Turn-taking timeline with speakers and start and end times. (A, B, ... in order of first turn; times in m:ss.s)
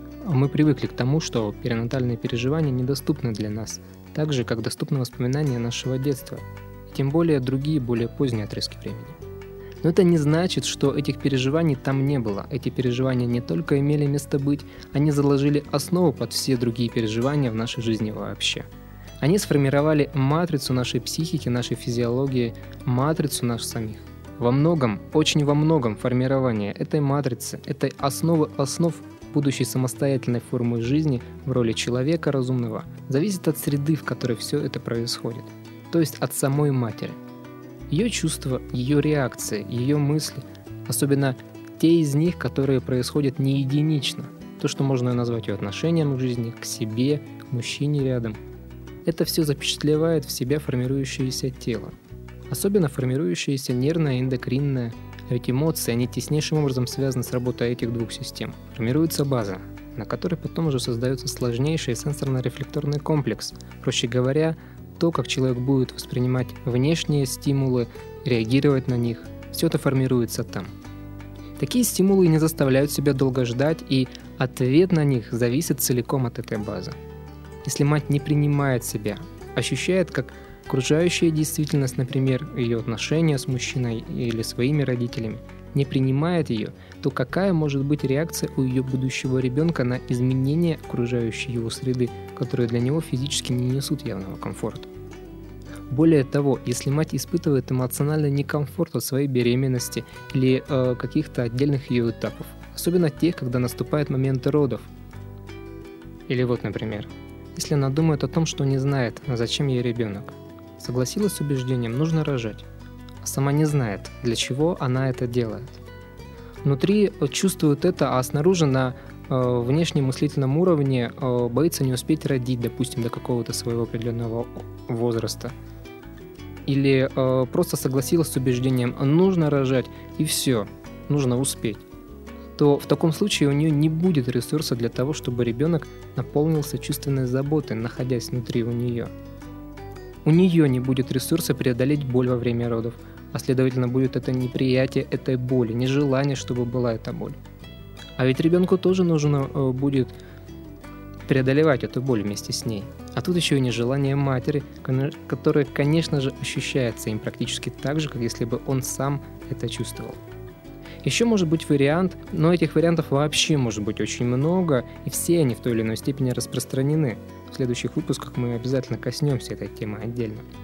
0:00.2-0:09.2 A
0:09.8-0:18.7 A
0:19.2-0:37.2 A
0:37.9-0:48.4 A
0:49.0-0:51.9 A
0:52.5-1:10.7 A
1:11.6-1:17.0 A
1:17.6-1:34.9 A
1:35.9-1:44.9 A
1:46.3-1:52.7 A
1:53.2-1:55.8 A
1:56.6-2:05.5 A
2:06.6-2:11.8 A
2:12.6-2:19.1 A
2:20.2-2:27.4 A
2:28.2-2:30.2 A
2:31.2-2:40.2 A
2:41.0-2:50.4 A